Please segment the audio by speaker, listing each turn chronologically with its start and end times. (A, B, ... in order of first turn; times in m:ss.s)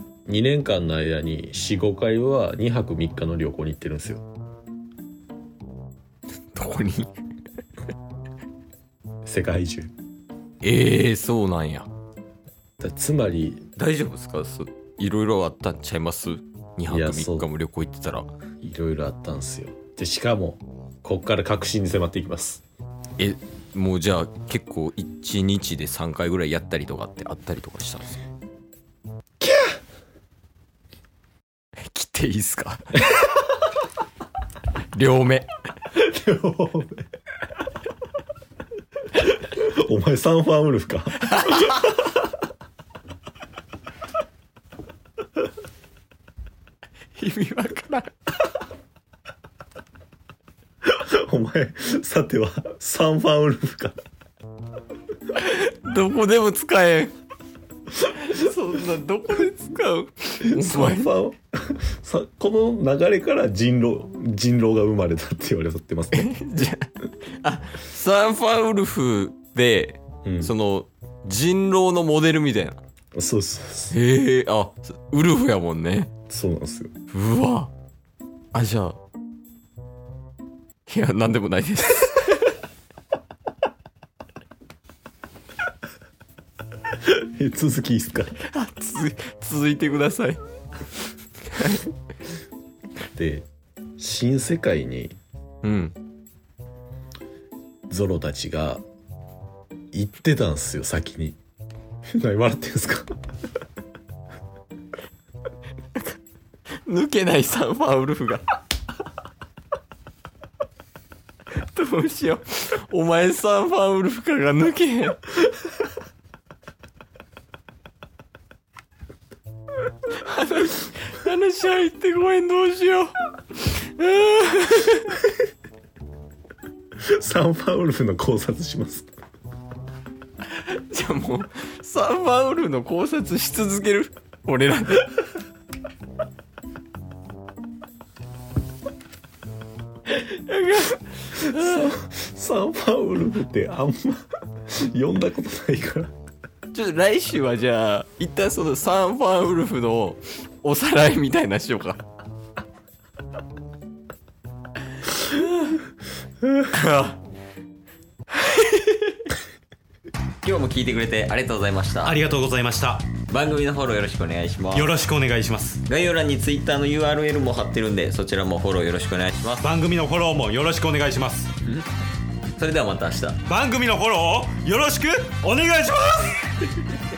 0:00.3-0:04.3 A
0:06.5-0:07.1 B
0:09.3-0:09.9 A
0:10.6-0:11.9 B
0:12.8-0:13.6 A
0:13.8-0:18.3 B
0:16.9-0:17.5 A
0:18.6-0:22.6 A
0:23.2-0:28.2 B
0:29.4-0:29.8 A
0:31.9-0:33.0 B
0:34.9-0:35.5 B
0:36.0-0:37.0 A
0:39.2-0:41.9 A
0:41.3-0:41.7 B
0:47.2-0:48.1 B
0:50.8-0:54.0 A
0:55.3-0:57.1 B
0:58.0-1:01.1 B
1:00.4-1:06.6 A
1:06.1-1:12.8 B
1:10.2-1:10.5 A
1:13.2-1:14.0 A
1:13.9-1:16.1 B
1:16.3-1:16.9 A
1:17.1-1:17.7 B
1:18.5-1:19.0 B
1:20.9-1:22.6 B
1:27.0-1:28.4 A
1:28.4-1:30.4 B
1:31.5-1:31.9 B
1:33.2-1:33.5 A
1:34.0-1:35.2 A
1:35.6-1:36.0 B
1:37.9-1:38.8 A
1:39.9-1:41.4 A
1:42.1-1:43.1 A
1:46.8-1:48.4 B
1:51.6-1:55.3 B
2:00.2-2:05.2 B
2:07.0-2:09.1 A
2:10.5-2:15.1 B
2:20.1-2:21.9 B
2:21.4-2:26.1 A
2:26.7-2:32.0 B
2:35.2-2:35.8 B
2:36.7-2:37.2 B
2:38.3-2:39.3 B
2:40.4-2:42.2 B
2:42.0-2:43.1 C
2:43.3-2:45.0 B
2:44.7-2:45.8 C
2:45.8-2:49.7 B
2:49.6-2:51.5 C
2:52.6-2:53.4 B
2:53.5-2:56.5 C